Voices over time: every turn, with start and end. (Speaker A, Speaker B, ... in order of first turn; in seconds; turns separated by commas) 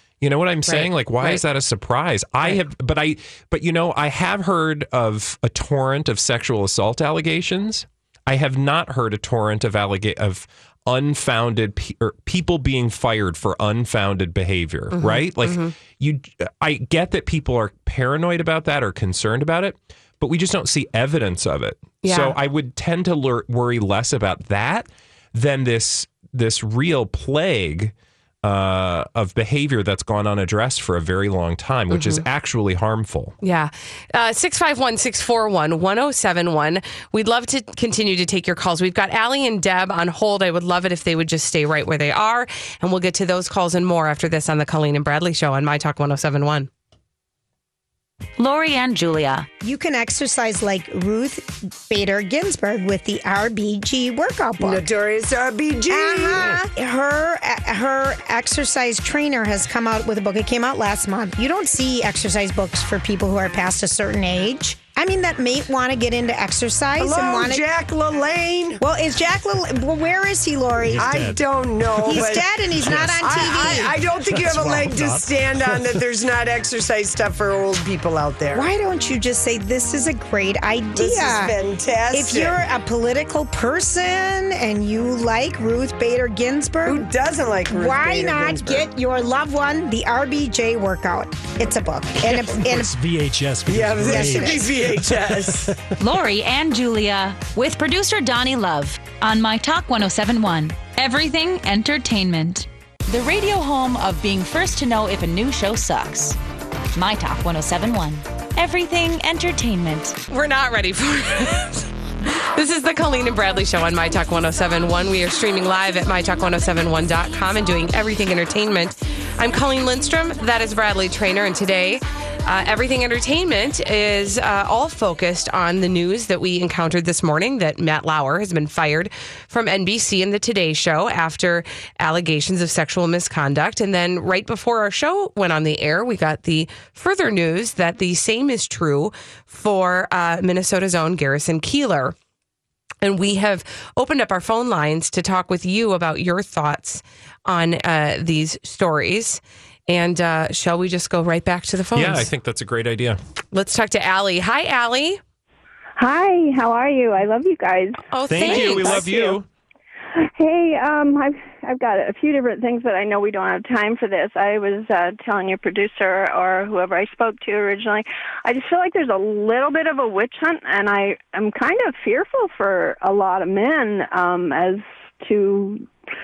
Speaker A: 0.2-33.4, Speaker B: 0.6-1.4, Speaker B: 14.9-15.7, Speaker B: 22.0-22.4, Speaker B: 31.9-32.2, Speaker B: 33.4-46.7, Speaker C: 48.4-49.5, Speaker D: 49.6-54.9, Speaker E: 54.6-56.4, Speaker D: 55.9-67.7, Speaker E: 67.0-68.8, Speaker D: 68.8-71.0, Speaker F: 70.8-71.6, Speaker E: 71.0-72.4, Speaker D: 72.0-73.9, Speaker F: 72.7-76.1, Speaker E: 73.2-78.6, Speaker D: 78.5-81.6, Speaker E: 80.9-82.5, Speaker D: 82.1-87.1, Speaker E: 86.8-88.8, Speaker D: 87.7-92.9, Speaker F: 92.2-95.9, Speaker E: 93.7-95.7, Speaker D: 94.0-94.7, Speaker C: 96.0-106.4, Speaker C: 106.9-110.2, Speaker B: 110.3-142.1, Speaker B: 143.0-152.3, Speaker A: 151.9-153.2, Speaker B: 153.5-155.2, Speaker G: 156.0-159.0, Speaker B: 158.1-159.4, Speaker A: 158.3-159.4, Speaker G: 160.3-175.9